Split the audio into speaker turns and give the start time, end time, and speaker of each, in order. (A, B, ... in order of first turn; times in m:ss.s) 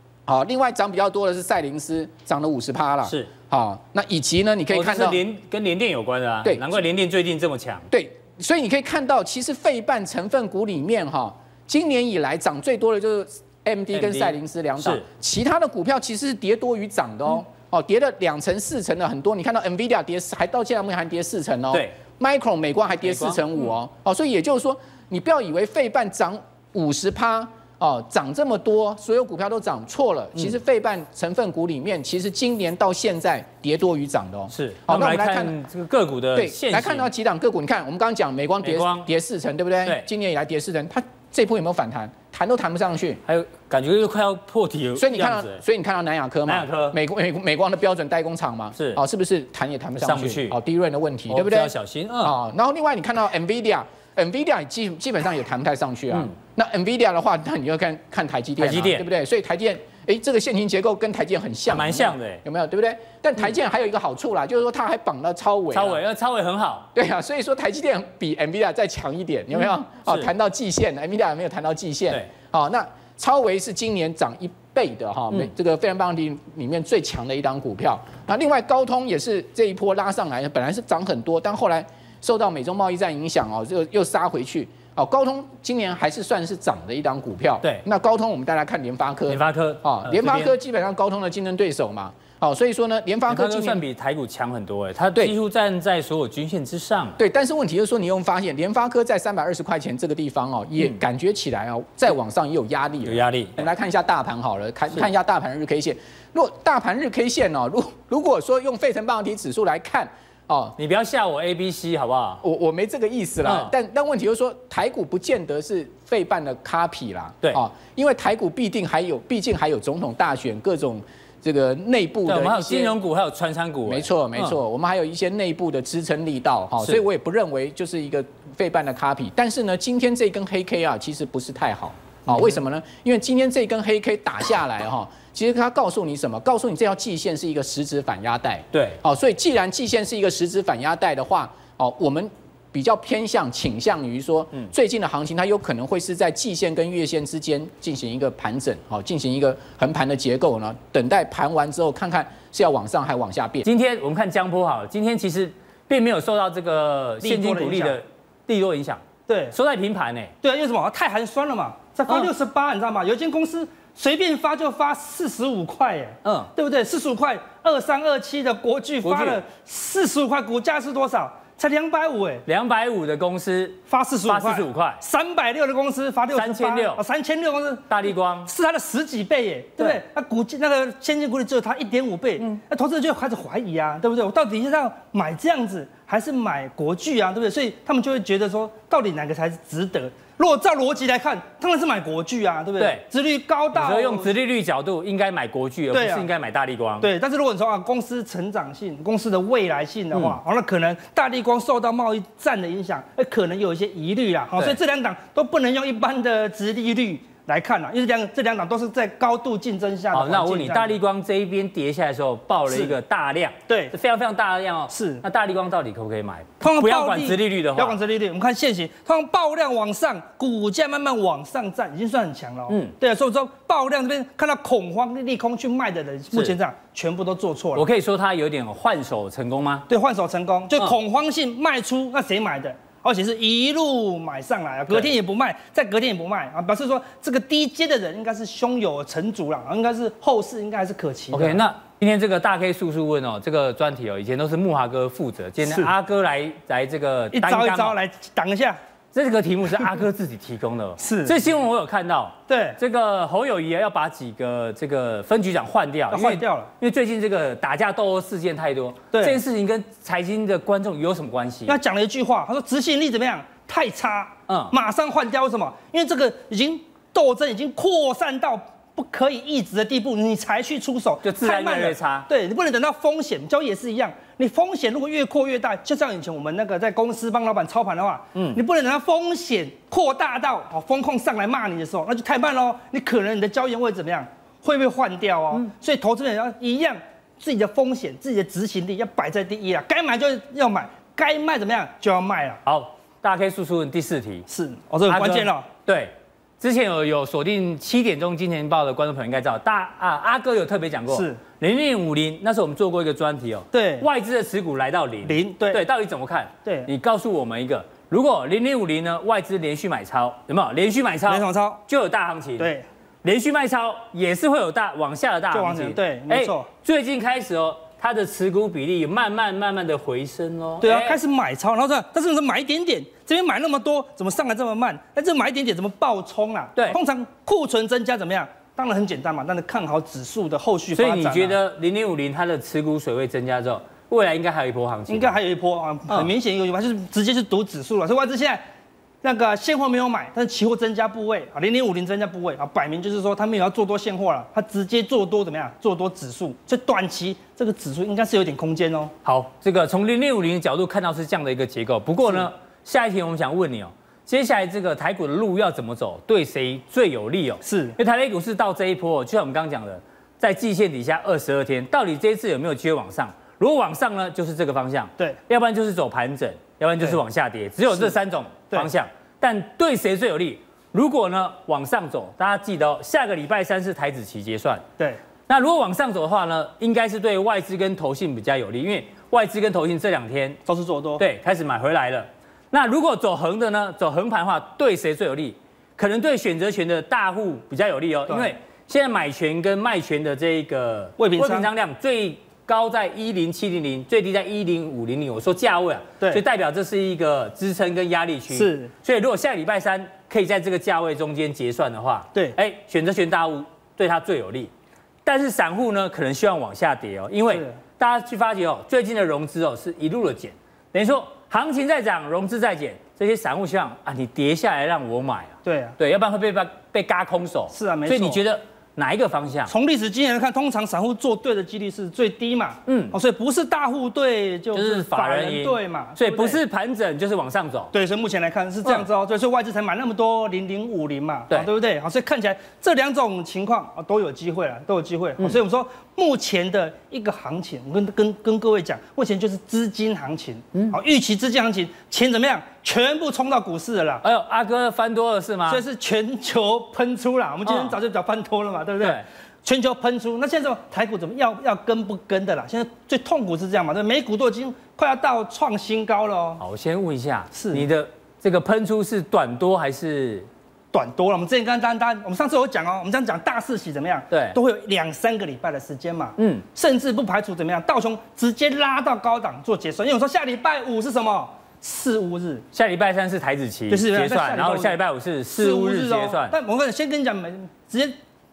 0:00.3-0:05.2 A
0:03.0-0:03.3 B
0:04.7-0:07.9 B
0:06.4-0:06.8 A
0:07.9-0:35.6 A
0:13.9-0:15.0 B
0:23.0-0:23.4 B
0:34.5-0:37.1 B
0:36.4-0:43.2 A
0:38.6-0:39.1 B
0:43.3-0:45.6 B
0:45.0-1:06.0 A
0:46.5-0:47.0 B
0:48.8-0:49.0 B
0:50.0-0:50.6 B
0:51.3-0:52.4 B
0:58.6-0:59.1 B
1:01.7-1:02.4 B
1:05.7-1:06.9 B
1:07.0-1:33.8 A
1:29.3-1:30.5 B
1:33.3-1:37.2 B
1:37.2-1:50.8 A
1:43.0-1:43.6 B
1:50.8-1:52.4 B
1:52.4-2:03.0 A
1:53.4-1:53.7 B
2:02.3-2:04.6 B
2:03.9-2:33.7 A
2:18.7-2:19.0 B
2:33.6-2:40.3 B
2:37.2-2:38.0 C
2:39.3-2:39.6 C
2:40.4-2:52.4 C
2:46.2-2:46.5 B
2:49.0-2:49.4 B
2:52.5-2:55.0 B
2:53.9-3:14.3 C
2:56.4-2:57.0 B
2:57.9-2:58.5 B
3:12.8-3:13.0 B
3:13.7-3:17.1 B
3:15.9-3:16.3 C
3:17.0-3:31.0 C
3:20.1-3:20.4 B
3:30.1-3:38.0 B
3:32.7-3:33.0 C
3:33.7-3:33.9 C
3:34.9-3:35.2 C
3:36.6-3:47.9 C
3:47.8-3:49.9 B
3:49.9-4:01.6 C
4:01.3-4:08.0 B
4:05.6-4:05.9 C
4:07.3-4:08.8 C
4:09.1-4:21.8 B
4:11.0-4:11.4 C
4:12.5-4:12.8 C
4:16.1-4:16.7 C
4:19.1-4:19.4 C
4:21.7-4:52.6 C
4:24.5-4:24.7 B
4:31.2-4:32.3 B
4:38.4-4:38.6 B
4:52.6-4:54.4 B
4:54.5-4:55.7 C
4:55.1-5:12.7 B
5:01.1-5:01.4 C
5:03.7-5:04.1 C
5:05.2-5:05.8 C
5:11.3-5:11.8 C
5:12.6-5:12.9 C
5:13.2-5:21.2 B
5:15.5-5:16.7 C
5:20.8-5:31.6 C
5:31.0-5:35.4 B
5:35.1-5:38.6 C
5:39.2-5:49.1 C
5:49.2-6:14.8 B
5:57.6-5:58.0 C
6:15.5-6:20.6 B
6:20.7-6:21.2 C
6:21.2-6:44.7 B
6:31.2-6:31.7 C
6:38.5-6:38.9 C
6:45.2-6:59.7 B
6:55.6-6:56.0 C
6:57.7-6:58.4 C
6:59.7-7:06.6 C
7:02.9-7:03.2 B
7:04.7-7:07.9 B
7:07.9-7:24.2 C
7:24.2-7:25.8 B
7:25.7-7:36.6 C
7:27.7-7:28.0 B
7:36.6-7:40.5 B
7:37.5-7:37.9 C
7:40.9-7:52.7 C
7:44.3-7:44.6 B
7:46.4-7:46.6 B
7:52.7-7:56.6 B
7:53.9-7:58.2 C